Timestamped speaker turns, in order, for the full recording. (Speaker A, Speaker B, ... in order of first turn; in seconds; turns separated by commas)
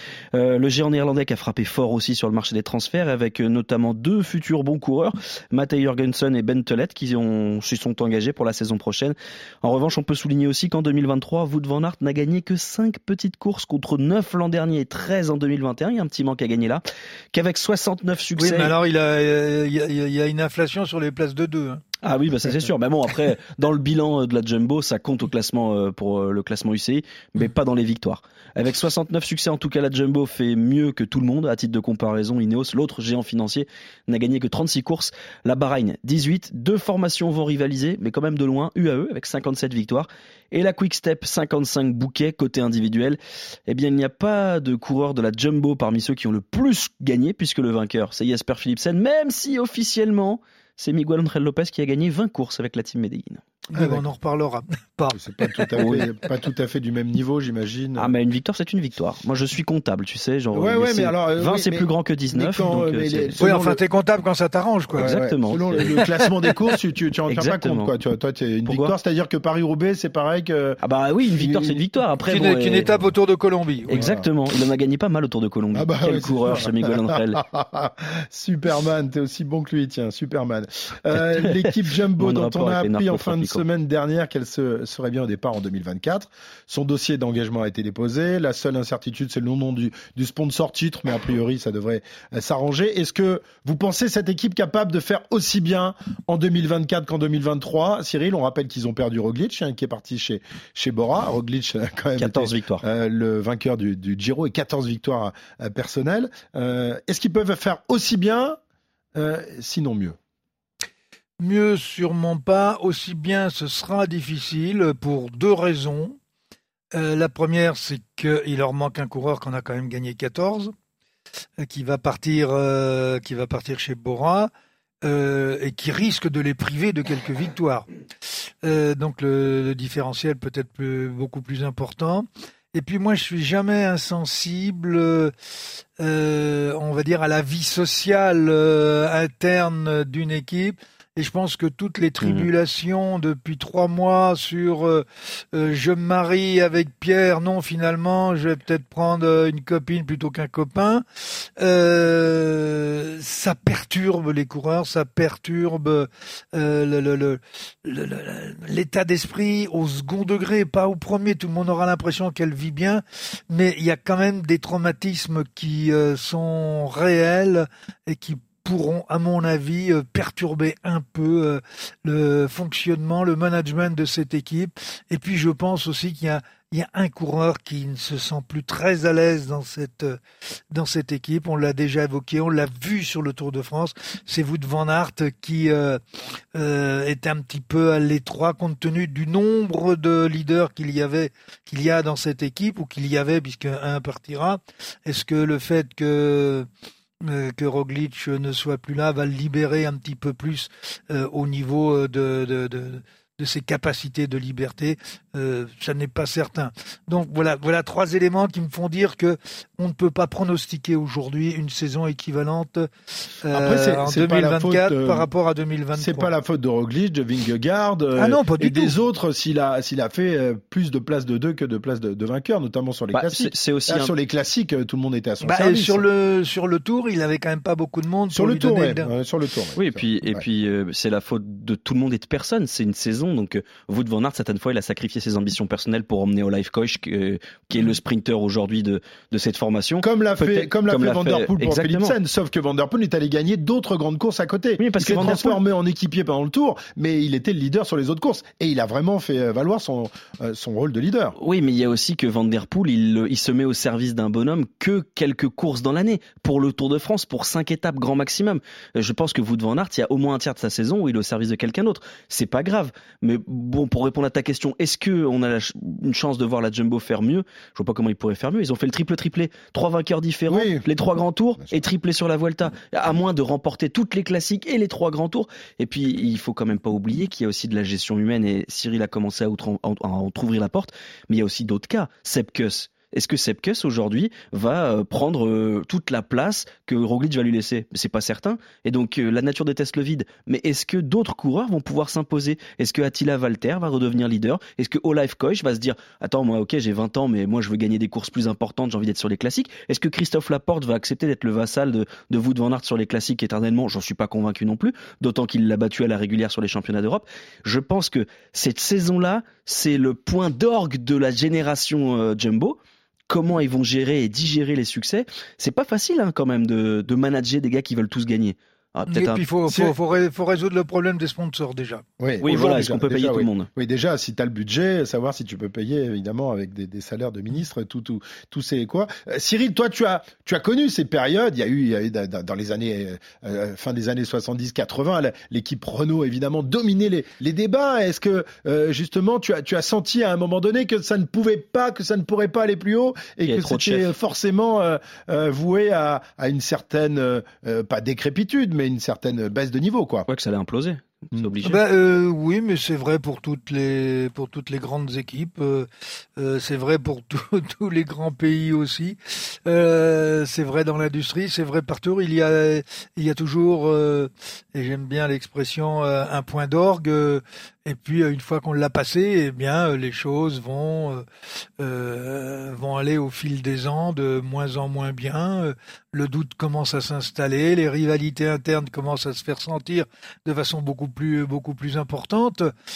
Speaker A: 0.3-18.7, Speaker B: 18.4-21.8, Speaker A: 22.0-53.4, Speaker B: 53.7-55.9, Speaker C: 53.7-54.0, Speaker C: 55.1-58.1, Speaker A: 55.8-56.1, Speaker A: 58.0-63.4, Speaker C: 60.5-63.8, Speaker B: 63.4-65.1, Speaker A: 65.0-65.9, Speaker C: 65.0-70.8, Speaker A: 67.3-67.9, Speaker A: 68.7-68.9, Speaker A: 70.8-72.9, Speaker C: 71.3-71.8, Speaker B: 72.3-74.0, Speaker A: 73.9-77.4, Speaker C: 73.9-74.3, Speaker C: 75.7-108.6, Speaker A: 81.3-83.6, Speaker A: 102.2-102.8, Speaker C: 109.2-110.2, Speaker B: 111.4-116.2, Speaker B: 117.0-120.7, Speaker B: 121.6-124.5, Speaker B: 125.0-127.9, Speaker B: 128.6-135.3, Speaker B: 136.0-180.2, Speaker A: 142.2-142.5, Speaker B: 180.7-186.0, Speaker B: 186.6-196.7, Speaker B: 197.2-216.3, Speaker C: 213.5-215.3, Speaker C: 216.0-226.1, Speaker B: 218.2-219.0, Speaker A: 223.1-224.1, Speaker B: 225.4-229.1, Speaker C: 228.3-230.4, Speaker A: 229.8-242.2, Speaker C: 240.0-251.4, Speaker A: 244.8-245.6, Speaker A: 251.4-319.5, Speaker C: 270.5-270.9, Speaker B: 319.1-322.0, Speaker C: 322.2-350.3, Speaker A: 322.4-323.7, Speaker A: 343.4-344.1, Speaker A: 350.3-351.8, Speaker B: 351.6-371.3, Speaker B: 371.8-382.7